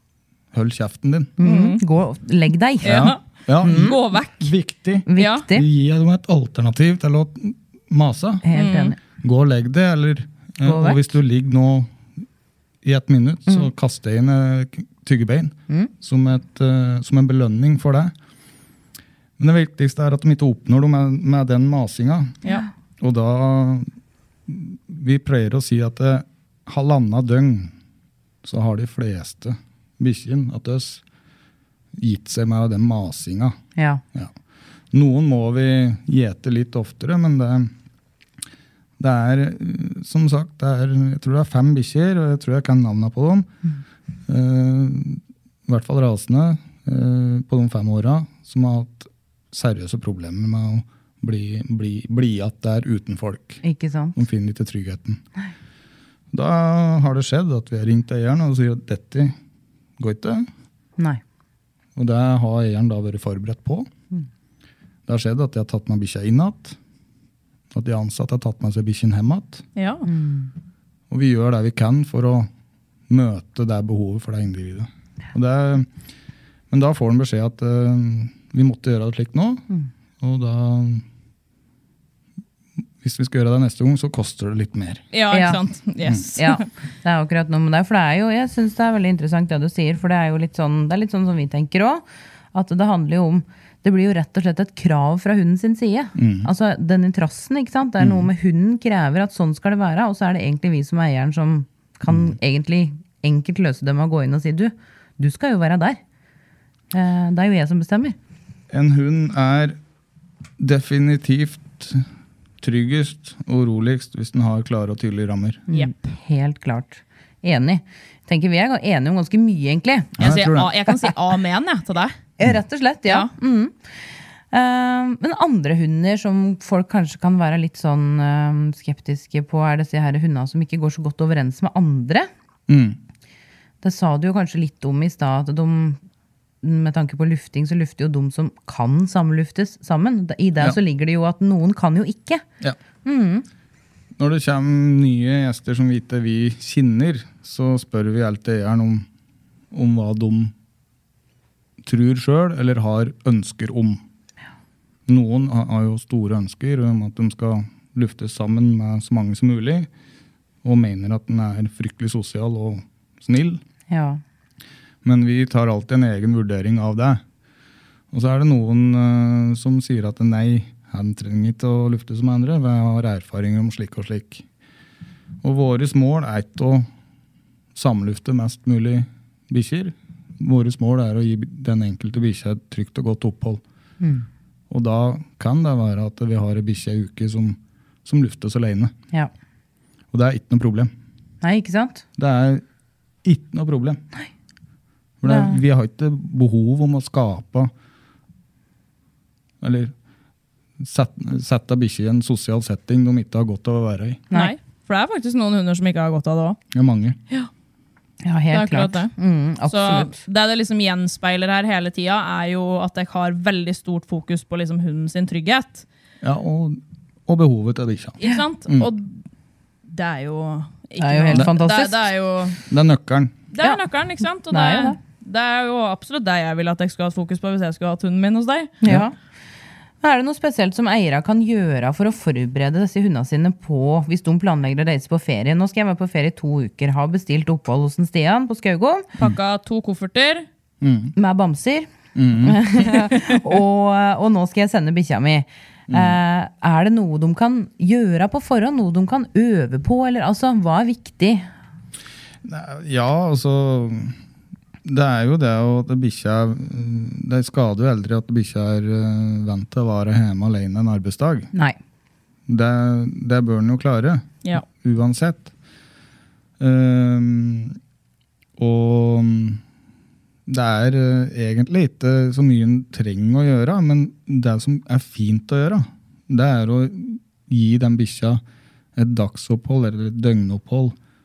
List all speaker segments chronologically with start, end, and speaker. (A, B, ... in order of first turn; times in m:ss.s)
0:00.5-0:01.3 A
0:01.4-0:04.0 B
0:01.4-0:01.8 C
0:02.8-0:04.5 C
0:02.8-0:08.4 A
0:05.1-0:05.6 B
0:05.2-0:05.5 C
0:08.4-0:09.0 B
0:08.5-0:08.9 C
0:09.2-0:11.9 A
0:10.6-0:11.1 B
0:12.8-0:18.1 A
0:19.4-0:22.4 A
0:23.0-0:23.9 A
0:24.5-0:27.7 A
0:28.4-0:31.0 A
0:32.0-0:33.6 A
0:33.8-0:34.0 B
0:34.9-0:37.7 A
0:39.0-0:43.5 A
0:44.3-0:53.6 A
0:53.6-0:54.2 B
0:54.2-0:55.2 A
0:56.3-0:59.4 A
1:00.0-1:00.5 A
1:02.0-1:03.9 A
1:05.1-1:06.8 A
1:07.7-1:09.6 A
1:09.8-1:10.1 C
1:10.0-1:10.5 B
1:11.1-1:12.5 A
1:13.1-1:15.9 A
1:16.7-1:19.6 A
1:20.2-1:21.0 A
1:23.0-1:25.0 A
1:25.1-1:26.6 C
1:25.3-1:25.6 B
1:26.4-1:46.0 B
1:36.2-1:36.5 A
1:38.0-1:38.3 A
1:42.1-1:42.4 A
1:46.9-1:48.2 B
1:48.7-1:49.8 A
1:50.6-1:52.0 A
1:52.6-1:55.6 A
1:55.7-2:01.1 B
1:55.7-1:56.1 C
2:00.2-2:00.7 A
2:00.2-2:02.2 C
2:02.4-2:03.8 B
2:04.5-2:12.3 B
2:12.7-2:13.0 A
2:13.8-2:16.0 B
2:16.6-2:22.4 B
2:23.0-2:23.5 B
2:24.2-2:29.1 A
2:29.7-2:30.5 A
2:31.8-2:34.0 A
2:35.1-2:39.9 A
2:40.6-2:43.6 A
2:43.9-2:44.2 B
2:45.0-2:47.2 A
2:48.1-2:54.5 A
2:55.4-2:56.9 A
2:57.8-3:03.6 A
3:04.0-3:04.3 B
3:04.7-3:08.9 A
3:10.1-3:10.9 A
3:11.4-3:12.0 B
3:12.2-3:12.6 A
3:13.2-3:14.0 A
3:15.2-3:17.7 A
3:15.2-3:15.6 B
3:19.6-3:19.9 A
3:20.8-3:24.2 A
3:24.3-3:26.6 C
3:26.7-3:27.2 A
3:28.2-3:30.2 B
3:28.5-3:29.1 C
3:29.7-3:35.9 C
3:36.2-3:38.9 A
3:38.2-3:39.2 C
3:39.9-3:42.6 C
3:41.0-3:42.1 B
3:42.7-3:43.4 A
3:43.5-3:48.7 C
3:44.5-3:45.0 B
3:48.8-3:49.1 B
3:50.0-3:59.1 B
3:59.2-4:00.5 C
4:00.8-4:01.2 A
4:01.2-4:11.5 B
4:02.2-4:02.7 A
4:05.9-4:06.2 A
4:12.4-4:14.2 A
4:14.8-4:21.5 A
4:22.5-4:25.5 A
4:26.6-4:27.8 A
4:28.6-4:29.6 A
4:30.5-4:38.4 A
4:39.0-4:41.0 A